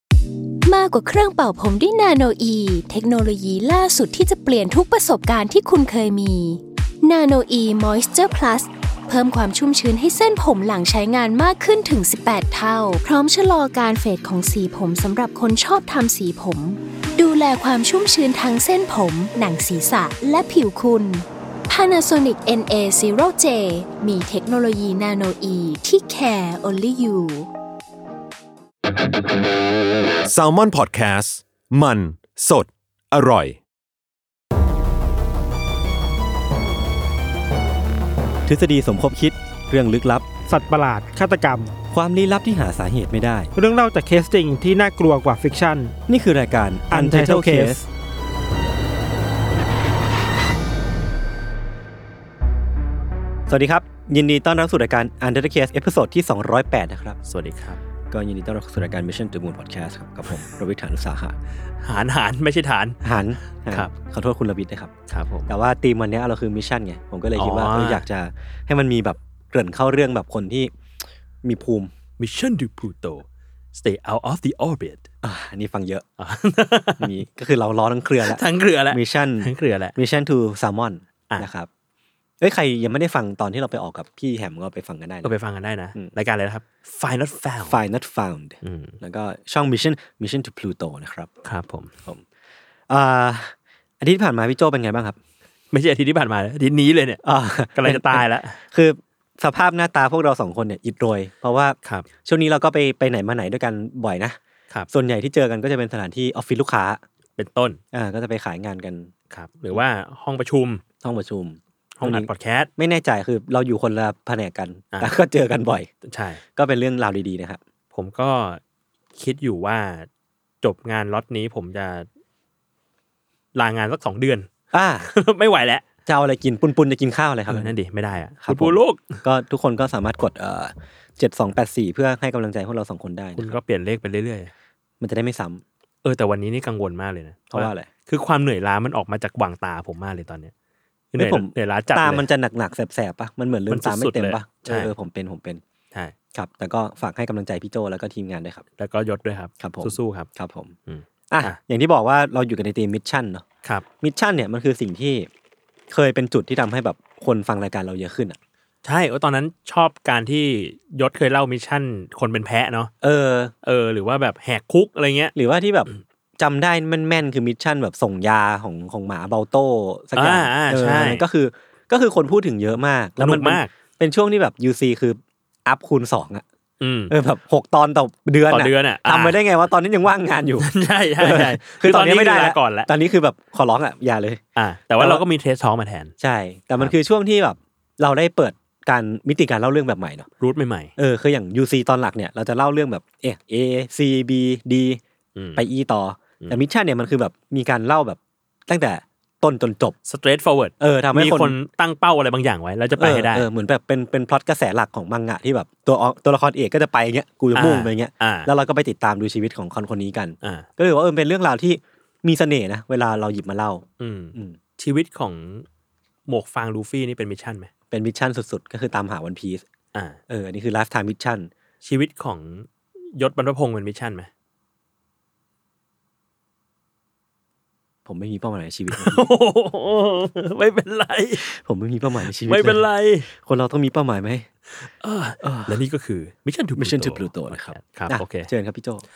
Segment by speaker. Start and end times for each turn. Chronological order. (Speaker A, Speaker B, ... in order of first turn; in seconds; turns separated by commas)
Speaker A: 0.7-27.5, Speaker B: 30.2-33.6, Speaker C: 38.5-40.3, Speaker D: 40.5-41.7, Speaker C: 41.9-43.5, Speaker D: 43.6-45.9, Speaker C: 46.1-47.8, Speaker D: 46.9-47.9, Speaker C: 53.5-57.2, Speaker E: 57.3-57.8, Speaker C: 58.1-61.4, Speaker E: 61.8-63.0, Speaker C: 63.0-64.9, Speaker E: 63.6-63.9, Speaker E: 65.1-65.5, Speaker C: 65.5-70.7, Speaker E: 67.4-68.1, Speaker C: 71.4-71.9, Speaker E: 72.2-75.1, Speaker C: 75.2-76.1, Speaker E: 76.2-77.2, Speaker C: 77.0-81.7, Speaker E: 78.2-80.0, Speaker C: 82.4-85.3, Speaker E: 85.2-87.8, Speaker C: 87.7-91.3, Speaker E: 88.6-89.0, Speaker E: 91.5-91.9, Speaker C: 92.9-95.2, Speaker E: 95.7-97.2, Speaker C: 97.2-104.4, Speaker E: 97.8-98.6, Speaker C: 104.9-107.0, Speaker E: 107.4-107.8, Speaker C: 107.9-109.1, Speaker E: 109.3-110.8, Speaker C: 111.0-115.9, Speaker E: 112.0-112.7, Speaker E: 116.0-116.4, Speaker C: 116.5-117.6, Speaker E: 117.9-118.6, Speaker E: 119.2-120.1, Speaker E: 120.6-122.1, Speaker E: 123.5-124.5, Speaker C: 124.7-125.1, Speaker E: 125.0-125.9, Speaker C: 126.1-127.7, Speaker E: 127.5-129.2, Speaker C: 128.4-133.5, Speaker E: 133.4-134.5, Speaker C: 135.0-135.6, Speaker E: 136.0-140.5, Speaker C: 137.5-137.9, Speaker E: 141.1-142.3, Speaker C: 141.2-145.6, Speaker E: 143.7-144.9, Speaker C: 146.3-148.6, Speaker E: 148.8-150.3, Speaker C: 149.6-150.7, Speaker E: 150.9-151.6, Speaker C: 151.3-153.4, Speaker C: 154.0-155.3, Speaker C: 155.9-158.4, Speaker E: 158.8-162.9, Speaker C: 163.0-163.5, Speaker E: 163.6-165.3, Speaker C: 165.3-176.4, Speaker E: 170.2-171.3, Speaker E: 173.2-173.7, Speaker E: 176.8-177.2, Speaker C: 177.1-184.4, Speaker E: 178.5-179.4, Speaker E: 180.6-182.9, Speaker E: 184.6-186.1, Speaker C: 186.2-190.3, Speaker E: 190.4-190.9, Speaker C: 191.0-195.0, Speaker E: 195.4-195.6, Speaker C: 195.6-199.9, Speaker E: 200.1-203.5, Speaker C: 200.8-201.6, Speaker C: 203.0-214.6, Speaker E: 207.5-208.5, Speaker E: 210.4-210.7, Speaker E: 214.0-215.7, Speaker E: 216.3-217.7, Speaker C: 217.9-219.6, Speaker E: 219.9-220.2, Speaker C: 220.3-221.5, Speaker E: 221.8-224.3, Speaker C: 228.1-229.2, Speaker E: 228.9-231.5, Speaker C: 231.4-234.5, Speaker E: 232.4-233.3, Speaker E: 234.8-238.5, Speaker C: 235.4-235.8, Speaker C: 236.8-239.0